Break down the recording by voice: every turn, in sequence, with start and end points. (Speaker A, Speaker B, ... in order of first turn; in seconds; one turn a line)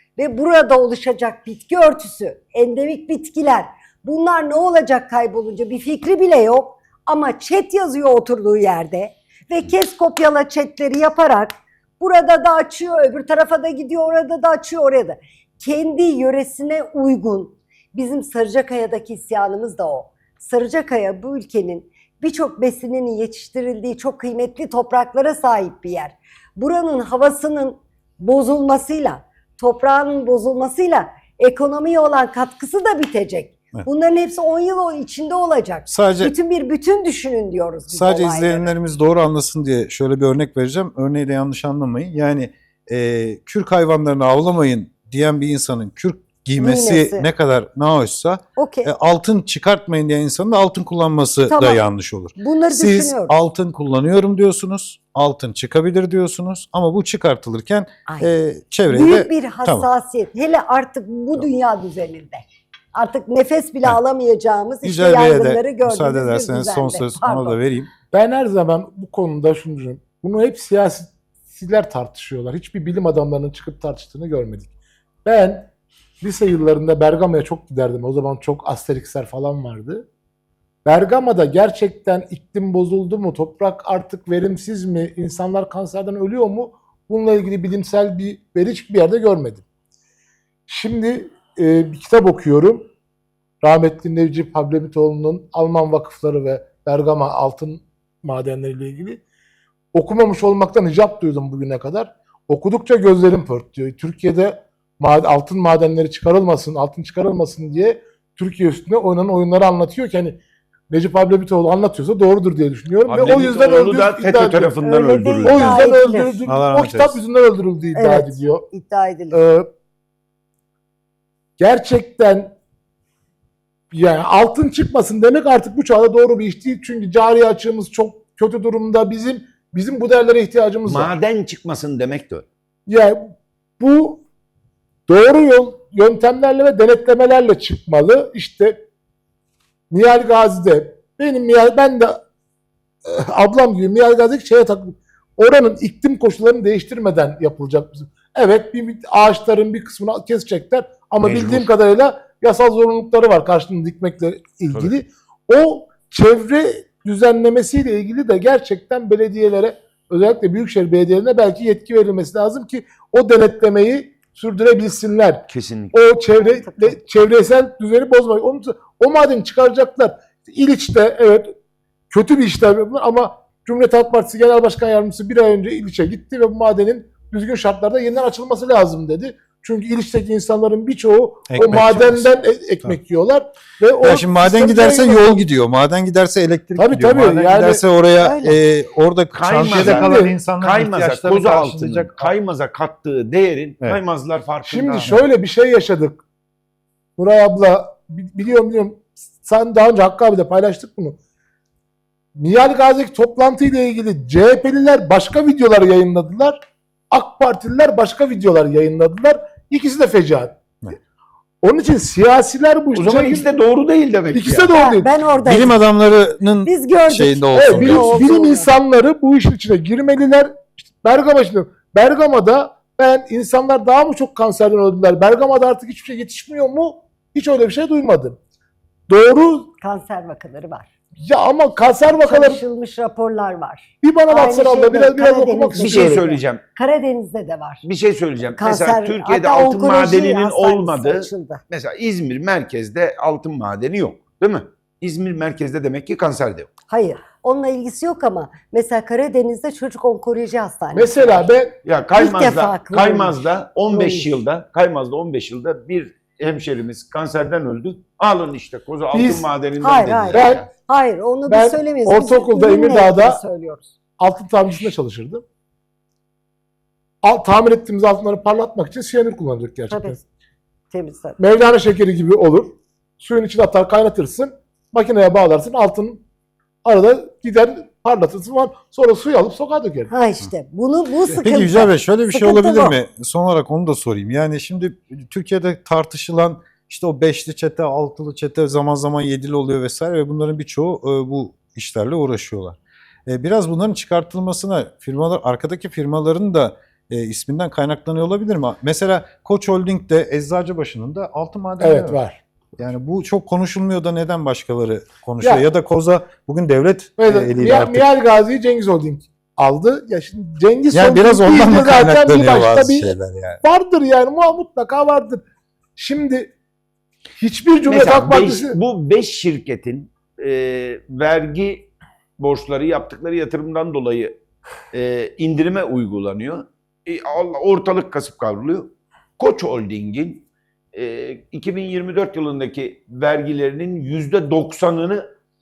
Speaker A: 0.2-38.7
Speaker B: 35.9-36.3
Speaker B: 37.9-59.9
Speaker A: 46.6-47.3
Speaker A: 48.6-48.9
Speaker A: 51.5-51.8
Speaker A: 52.4-53.3
Speaker A: 58.1-58.3
Speaker A: 58.9-62.4
Speaker A: 62.9-67.6
Speaker B: 64.8-67.9
Speaker C: 68.1-74.7
Speaker C: 75.2-75.7
Speaker C: 76.2-80.0
Speaker C: 80.8-89.6
Speaker C: 90.7-92.9
Speaker C: 93.6-99.2
Speaker C: 99.9-114.7
Speaker D: 113.0-115.8
Speaker A: 114.8-116.4
Speaker C: 115.4-118.6
Speaker B: 116.5-117.2
Speaker A: 117.9-119.4
Speaker C: 119.3-119.7
Speaker C: 121.6-122.5
Speaker C: 123.9-131.2
Speaker D: 130.9-132.4
Speaker C: 132.9-134.2
Speaker C: 135.1-138.8
Speaker C: 139.9-142.2
Speaker C: 143.1-171.5
Speaker D: 151.2-151.7
Speaker D: 165.5-166.0
Speaker A: 166.5-167.0
Speaker C: 172.1-185.4
Speaker B: 181.5-182.3
Speaker B: 184.0-192.3
Speaker C: 186.8-187.8
Speaker A: 188.2-188.6
Speaker D: 189.3-195.2
Speaker C: 189.7-190.3
Speaker C: 194.7-196.2
Speaker C: 197.2-201.2
Speaker C: 202.3-210.6
Speaker C: 211.6-213.5
Speaker D: 212.9-214.7
Speaker C: 214.3-215.1
Speaker A: 214.7-215.8
Speaker B: 215.4-218.4
Speaker A: 216.7-218.7
Speaker C: 217.5-228.4
Speaker C: 229.1-229.7
Speaker A: 229.8-230.9
Speaker C: 231.2-232.6
Speaker A: 232.1-237.8
Speaker C: 234.0-236.2
Speaker D: 235.8-236.6
Speaker D: 237.8-246.7
Speaker A: 238.6-241.6
Speaker A: 246.9-251.5
Speaker C: 250.9-251.7
Speaker D: 251.8-260.7
Speaker A: 252.1-254.3
Speaker C: 259.1-259.4
Speaker A: 259.8-263.9
Speaker C: 260.3-260.6
Speaker C: 261.5-263.4
Speaker C: 264.2-265.4
Speaker C: 267.2-270.2
Speaker A: 269.9-270.2
Speaker A: 270.9-271.4
Speaker C: 271.4-276.2
Speaker C: 276.9-280.1
Speaker A: 280.1-282.9
Speaker B: 281.4-302.2
Speaker C: 301.8-302.4
Speaker B: 302.8-308.1
Speaker C: 307.2-315.4
Speaker B: 310.9-313.6
Speaker C: 315.9-316.5
Speaker C: 317.4-318.8
Speaker D: 317.9-324.4
Speaker D: 324.9-335.2